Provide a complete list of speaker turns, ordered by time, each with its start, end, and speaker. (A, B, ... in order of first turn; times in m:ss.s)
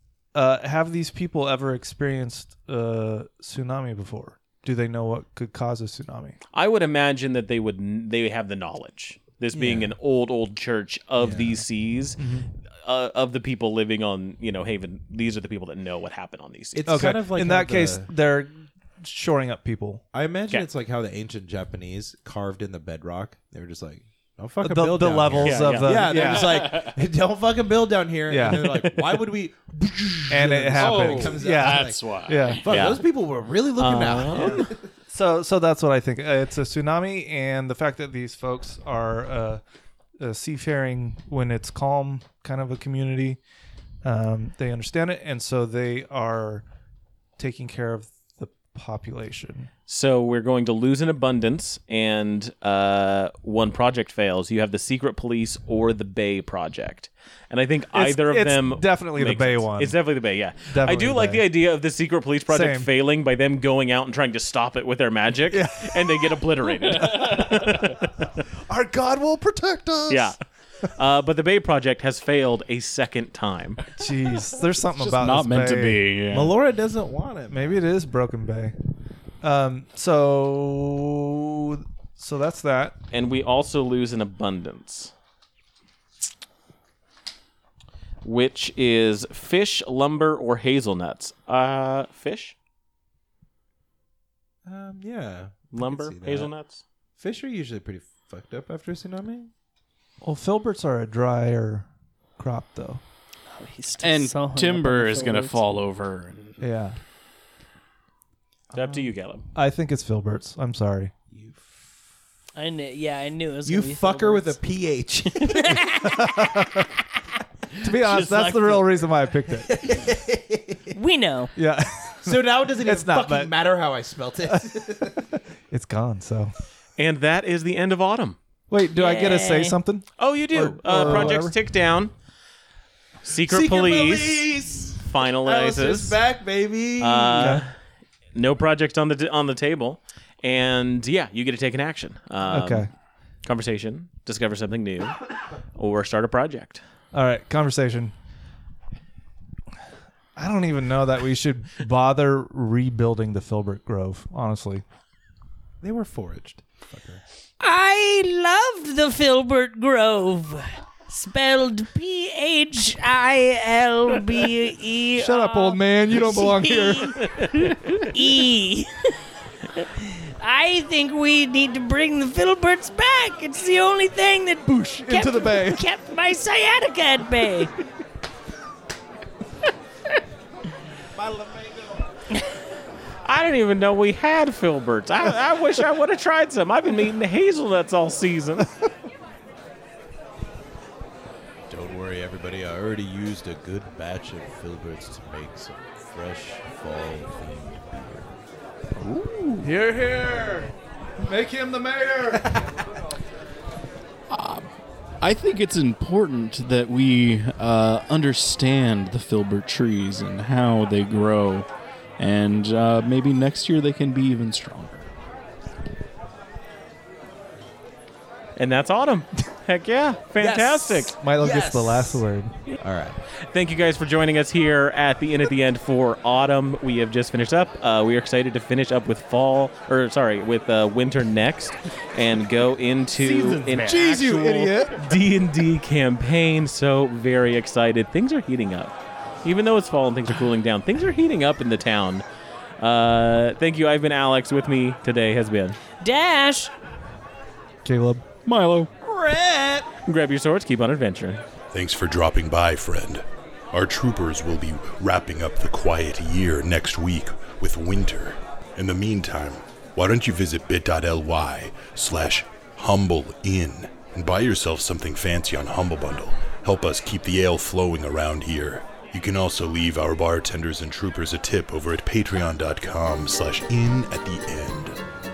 0:00.3-0:06.4 A
0:06.5-0:12.2 B
0:09.5-0:10.0 C
0:11.2-0:11.6 C
0:12.2-0:12.5 A
0:12.8-0:17.1 B
0:16.7-0:18.1 C
0:16.8-0:20.0 A
0:20.1-0:34.8 C
0:24.6-0:26.6 A
0:25.3-0:26.5 B
0:26.2-0:26.9 D
0:28.3-0:28.7 A
0:28.4-0:29.2 B
0:30.3-0:32.7 A
0:30.8-0:32.6 D
0:32.7-0:33.0 B
0:33.8-0:34.7 B
0:35.1-0:39.6 A
0:40.2-0:43.4 A
0:44.0-0:46.6 A
0:47.4-0:49.7 A
0:49.9-1:08.1 B
0:57.9-1:00.0 A
1:00.7-1:01.4 A
1:02.5-1:02.9 A
1:05.5-1:10.3 A
1:10.1-1:10.3 B
1:10.9-1:13.9 B
1:14.0-1:16.0 A
1:14.9-1:16.5 D
1:16.3-1:17.8 C
1:17.5-1:18.7 A
1:19.4-1:23.0 A
1:23.1-1:25.1 B
1:28.2-1:32.5 B
1:34.6-1:36.5 C
1:35.7-1:36.8 B
1:37.2-1:39.5 C
1:40.2-1:43.0 A
1:43.5-1:45.6 E
1:44.0-1:46.6 D
1:46.6-1:47.0 A
1:48.7-1:49.0 C
1:48.7-1:49.4 B
1:49.5-1:51.1 A
1:51.3-1:52.0 C
1:52.5-1:54.6 E
1:53.6-1:55.9 C
1:55.3-1:56.5 E
1:55.9-1:56.9 A
1:57.8-1:59.7 A
1:57.9-1:59.0 E
1:59.6-2:01.0 C
2:00.9-2:01.5 E
2:01.6-2:03.5 A
2:02.2-2:05.3 C
2:04.5-2:05.0 A
2:05.7-2:06.5 A
2:07.0-2:08.4 B
2:08.7-2:11.6 A
2:08.9-2:09.8 E
2:10.2-2:12.1 B
2:11.0-2:11.3 C
2:13.2-2:16.2 B
2:13.4-2:17.6 C
2:17.0-2:17.7 B
2:17.4-2:17.6 A
2:18.3-2:22.9 B
2:22.5-2:22.9 A
2:23.4-2:25.2 B
2:25.7-2:26.8 B
2:27.1-2:28.1 A
2:30.4-2:34.8 A
2:35.8-2:37.2 C
2:37.6-2:47.3 E
2:45.2-2:47.9 A
2:47.9-2:49.1 E
2:49.7-2:57.7 E
2:54.6-2:55.8 A
3:01.1-3:02.0 C
3:03.2-3:08.7 B
3:11.7-3:18.4 C
3:19.0-3:19.7 D
3:19.6-3:22.8 A
3:22.3-3:22.8 C
3:24.3-3:24.7 D
3:25.2-3:35.1 D
3:38.6-3:41.1 B
3:40.4-3:43.2 C
3:41.2-3:42.6 A
3:43.4-3:58.9 B
3:53.2-3:53.7 D
3:53.5-3:55.0 A
3:59.4-4:02.2 B
4:02.8-4:05.8 B
4:06.0-4:06.7 E
4:07.8-4:08.2 A
4:08.4-4:08.9 D
4:09.0-4:11.4 B
4:11.7-4:35.0 F